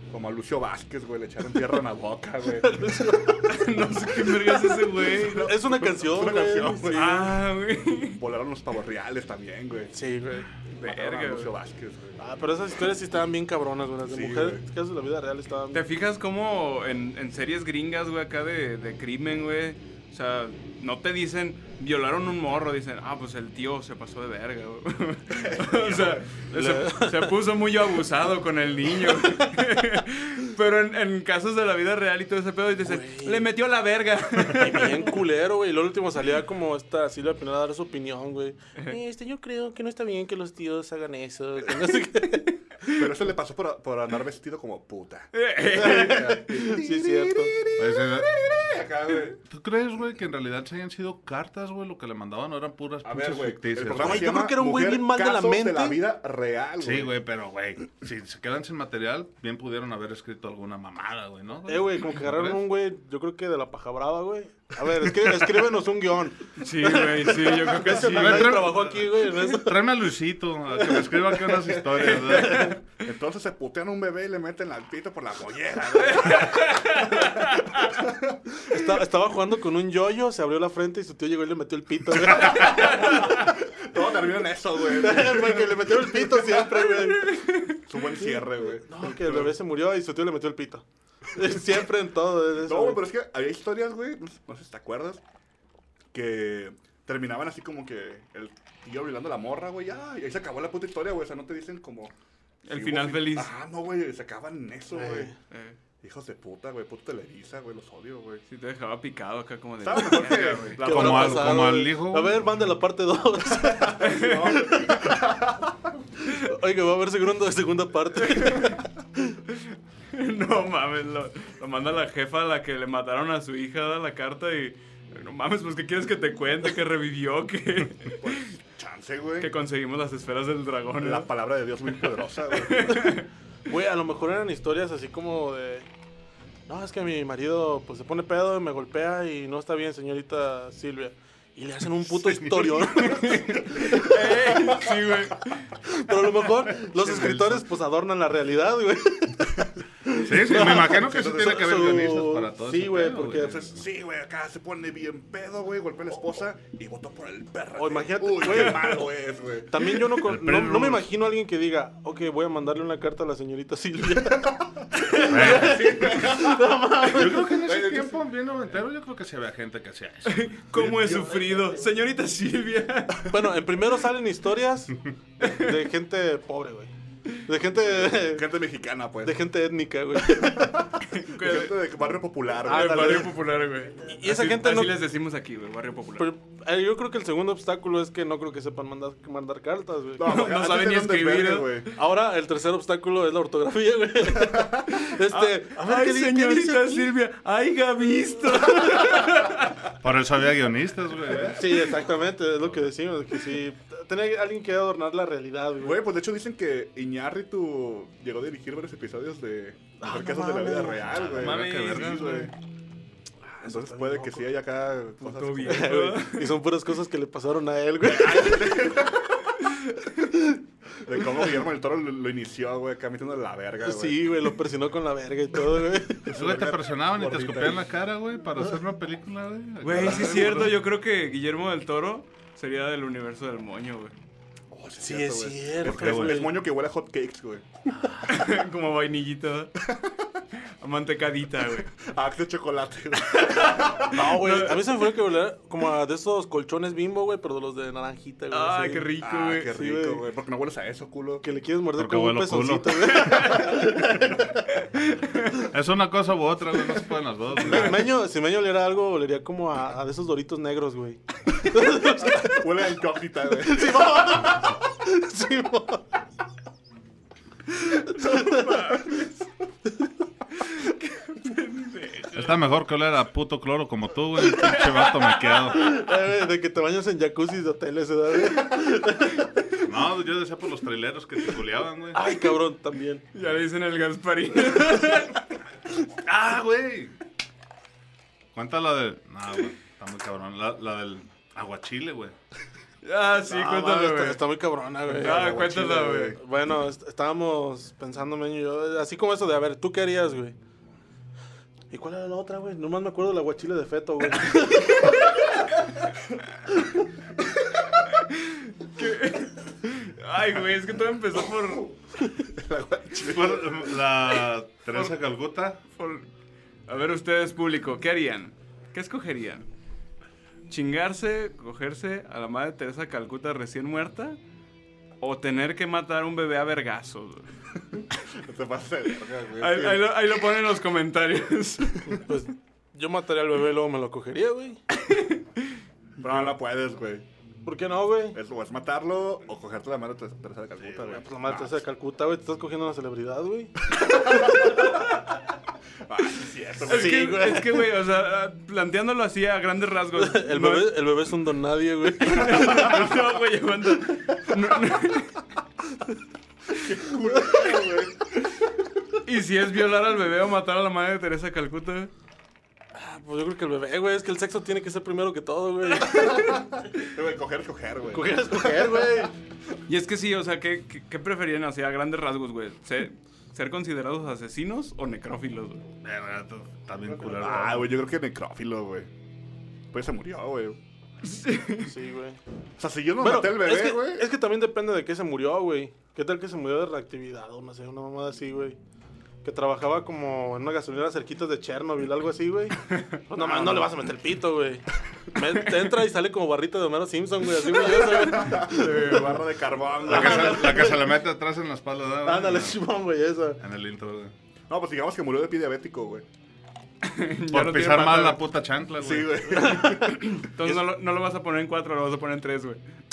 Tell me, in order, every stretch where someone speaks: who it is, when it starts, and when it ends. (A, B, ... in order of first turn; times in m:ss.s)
0:00.1-0:03.2 A
0:02.6-0:03.5 B
0:03.4-0:05.5 C
0:04.7-0:07.4 A
0:05.4-0:07.0 B
0:06.9-0:08.2 C
0:08.2-0:09.9 A
0:09.9-0:10.5 B
0:10.7-0:11.5 C
0:10.8-0:12.2 A
0:12.2-0:15.8 B
0:14.0-0:14.6 A
0:15.7-0:35.2 C
0:25.3-0:26.4 A
0:26.5-0:27.4 B
0:32.8-0:33.5 B
0:34.5-0:42.6 B
0:42.9-0:49.4 A
0:45.3-0:46.4 C
0:45.7-0:47.5 B
0:47.8-0:48.3 D
0:49.4-0:54.4 D
0:53.0-0:57.1 A
0:54.0-0:56.0 B
0:56.8-1:02.6 D
1:01.7-1:09.8 B
1:06.6-1:08.7 C
1:07.9-1:12.8 D
1:10.7-1:12.8 B
1:12.0-1:12.8 C
1:13.0-1:18.4 A
1:16.0-1:17.9 C
1:18.6-1:23.3 B
1:22.3-1:26.7 A
1:22.5-1:23.2 C
1:24.8-1:27.4 B
1:27.0-1:27.8 C
1:27.8-1:29.5 A
1:28.2-1:33.0 B
1:32.6-1:35.2 A
1:36.1-1:42.1 A
1:42.6-1:43.5 C
1:42.7-1:45.3 A
1:44.9-1:45.4 B
1:45.5-1:45.8 C
1:46.0-1:48.4 A
1:48.5-1:50.8 C
1:49.8-1:51.6 A
1:50.8-1:55.1 B
1:50.8-1:52.4 D
1:53.7-1:55.7 A
1:54.0-1:54.8 C
1:56.2-1:59.4 B
1:58.2-1:58.8 C
1:59.5-2:08.5 C
2:08.2-2:09.5 A
2:09.4-2:11.3 C
2:11.0-2:13.1 A
2:12.5-2:13.3 C
2:13.7-2:15.9 B
2:16.7-2:24.7 B
2:22.2-2:22.7 D
2:23.0-2:25.7 C
2:25.8-2:33.6 B
2:26.7-2:27.7 D
2:30.2-2:33.8 D
2:30.7-2:31.2 A
2:33.4-2:40.1 A
2:37.8-2:39.1 B
2:39.7-2:47.6 B
2:40.1-2:41.1 D
2:44.8-2:48.2 A
2:45.3-2:46.1 D
2:47.0-2:50.8 D
2:50.2-2:53.3 C
2:50.8-2:51.6 A
2:53.3-2:56.9 B
2:55.4-2:55.8 C
2:57.4-2:58.5 B
2:57.8-2:59.4 A
2:59.2-3:00.8 B
3:00.3-3:03.3 A
3:01.1-3:01.8 C
3:02.6-3:03.4 B
3:02.6-3:06.3 C
3:04.0-3:05.0 B
3:06.2-3:10.3 B
3:10.2-3:11.9 A
3:10.2-3:11.9 C
3:11.9-3:17.1 B
3:14.3-3:14.9 A
3:15.2-3:19.8 C
3:18.7-3:19.0 B
3:20.0-3:22.0 D
3:21.3-3:21.8 A
3:21.5-3:26.0 B
3:22.6-3:22.9 D
3:25.8-3:32.5 A
3:30.0-3:31.1 B
3:31.0-3:32.5 D
3:31.3-3:32.5 C
3:33.5-3:34.5 B
3:33.6-3:36.0 A
3:35.2-3:36.6 C
3:35.6-3:38.8 B
3:38.0-3:39.7 A
3:40.2-3:40.6 B
3:41.0-3:44.3 A
3:43.8-3:46.3 B
3:46.2-3:47.8 A
3:46.3-3:50.8 D
3:49.8-3:54.1 C
3:49.9-3:50.8 A
3:54.7-3:57.7 A
3:55.0-3:56.5 B
3:55.8-3:56.4 D
3:58.2-3:59.7 C
3:59.8-4:00.1 A
4:00.8-4:01.9 C
4:02.0-4:04.3 A
4:03.4-4:04.9 C
4:04.1-4:09.1 B
4:08.5-4:09.7 C
4:09.2-4:11.4 A
4:09.7-4:10.2 B
4:11.4-4:14.7 B
4:12.0-4:13.2 D
4:13.1-4:13.9 C
4:14.7-4:15.7 C
4:15.6-4:18.1 D
4:17.6-4:22.6 B
4:22.0-4:24.4 A
4:23.6-4:26.0 B
4:28.2-4:28.7 B
4:28.3-4:29.3 C
4:30.7-4:32.6 C
4:32.3-4:35.9 D
4:34.4-4:36.0 C
4:35.7-4:39.5 B
4:39.8-4:42.2 D
4:42.1-4:43.2 B
4:43.3-4:45.4 C
4:46.2-4:47.2 D
4:48.5-4:52.3 D
4:53.0-4:54.4 C
4:53.4-5:00.6 B
4:55.1-4:56.4 A
4:55.1-4:56.4 C
5:01.9-5:05.3 B
5:08.1-5:11.9 C
5:12.4-5:14.0 A
5:13.2-5:15.8 D
5:15.9-5:16.3 C
5:16.9-5:19.7 C
5:20.7-5:24.4 C
5:25.2-5:27.5 C
5:28.3-5:30.0 A
5:29.6-5:32.2 C
5:32.1-5:34.8 B
5:35.0-5:35.6 C
5:36.2-5:37.2 A
5:37.6-5:38.4 B
5:38.3-5:41.8 A
5:41.1-5:43.8 B
5:44.0-5:45.1 A
5:46.0-5:47.5 A
5:46.9-5:47.9 B
5:46.9-5:51.0 C
5:50.1-5:53.1 B
5:52.2-5:55.4 C
5:56.7-5:58.3 A
5:59.2-6:02.1 C
6:02.9-6:06.6 B
6:06.1-6:09.3 A
6:08.1-6:09.3 B
6:09.9-6:15.8 C
6:16.0-6:17.9 D
6:17.2-6:17.5 B
6:17.3-6:19.1 A
6:19.9-6:20.8 A
6:21.2-6:21.9 C
6:21.8-6:22.4 B
6:22.8-6:24.3 A
6:23.2-6:28.8 B
6:29.4-6:39.4 B
6:33.4-6:33.9 A
6:37.8-6:40.9 A
6:38.6-6:39.5 C
6:40.0-6:41.1 B
6:40.0-6:42.8 D
6:42.2-6:43.6 B
6:43.6-6:44.3 D
6:44.7-6:46.2 A
6:47.0-6:48.4 C
6:47.5-6:49.7 D
6:49.0-6:50.2 A
6:49.5-6:50.8 B
6:49.9-6:52.8 C